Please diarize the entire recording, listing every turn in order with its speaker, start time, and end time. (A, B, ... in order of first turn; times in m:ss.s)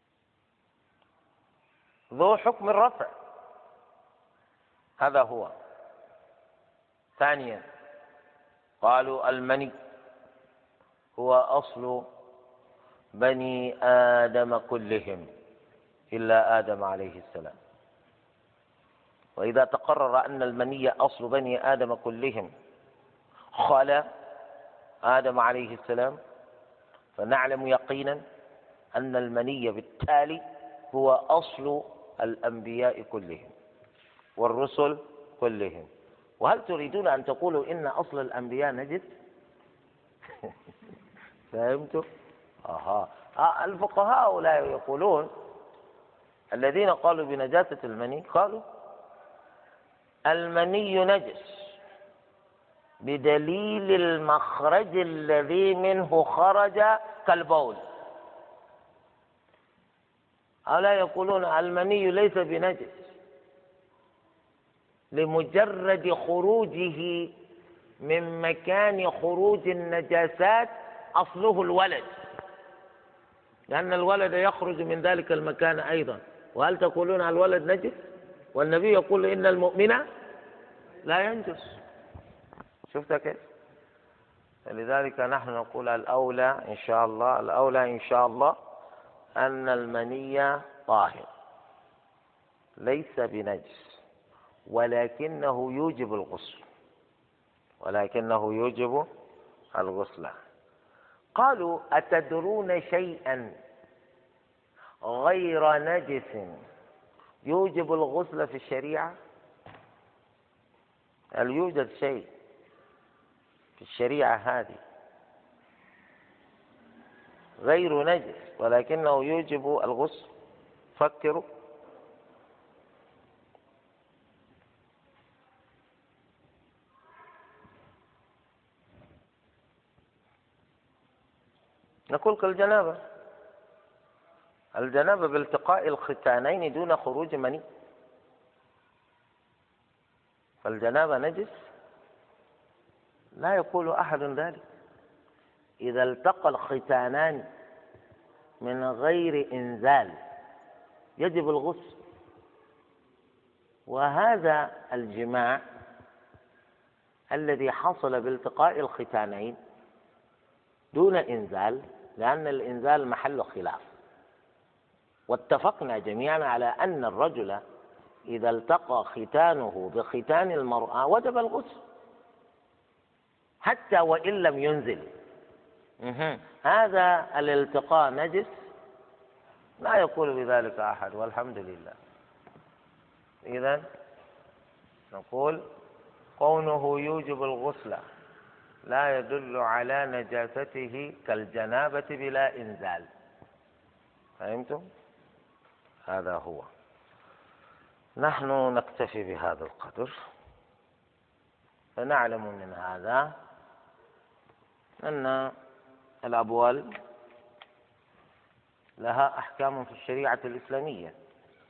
0:02.1-0:03.1 A
0:05.0-0:05.5 A
0:07.2-0:07.6 A
0:08.8-0:09.7 A
0:11.2-0:12.1 A
0:13.2-0:15.3 A
0:16.1-0:17.6 A
0:19.4-0:22.5 A
0:23.5-0:24.1 A
0:25.0-0:26.2 A
0:27.2-0:28.2 A
0:29.0-0:33.5 A
0:34.4-0:35.9 A
0:36.4-0:39.1 A
0:41.5-0:42.1 A
0:42.6-0:45.3 A
0:46.5-0:48.6 A
0:50.3-0:51.8 A
0:53.0-0:57.8 A
1:00.7-1:03.1 A
1:05.1-1:07.3 A
1:08.0-1:12.1 A
1:13.7-1:20.0 A
1:21.0-1:21.8 A
1:22.9-1:23.4 A
1:24.7-1:28.6 A
1:29.4-1:31.3 A
1:32.8-1:34.0 A
1:34.7-1:36.6 A
1:37.8-1:39.1 A
1:39.8-1:40.4 A
1:41.4-1:43.6 A
1:45.0-1:46.6 A
1:47.4-1:49.2 A
1:51.4-1:52.3 A
1:53.8-1:54.8 A
1:57.6-2:00.3 A
2:01.0-2:01.4 A
2:12.1-2:13.0 A
2:14.8-2:17.6 A
2:20.6-2:21.5 A
2:23.4-2:24.6 A
2:25.8-2:27.5 A
2:28.6-2:30.2 A
2:31.2-2:32.0 A
2:33.9-2:35.6 A
2:37.3-2:39.6 A
2:40.9-2:43.8 A
2:45.3-2:47.6 A
2:48.3-2:51.8 A
2:53.6-2:55.1 A
2:56.0-2:58.5 A
2:59.8-3:02.0 A
3:03.4-3:03.8 A
3:05.1-3:05.6 A
3:06.4-3:08.0 A
3:08.9-3:13.1 A
3:14.4-3:14.9 A
3:16.1-3:16.7 A
3:18.2-3:20.1 A
3:22.0-3:23.3 A
3:25.0-3:25.5 A
3:26.2-3:26.9 A
3:29.0-3:31.2 A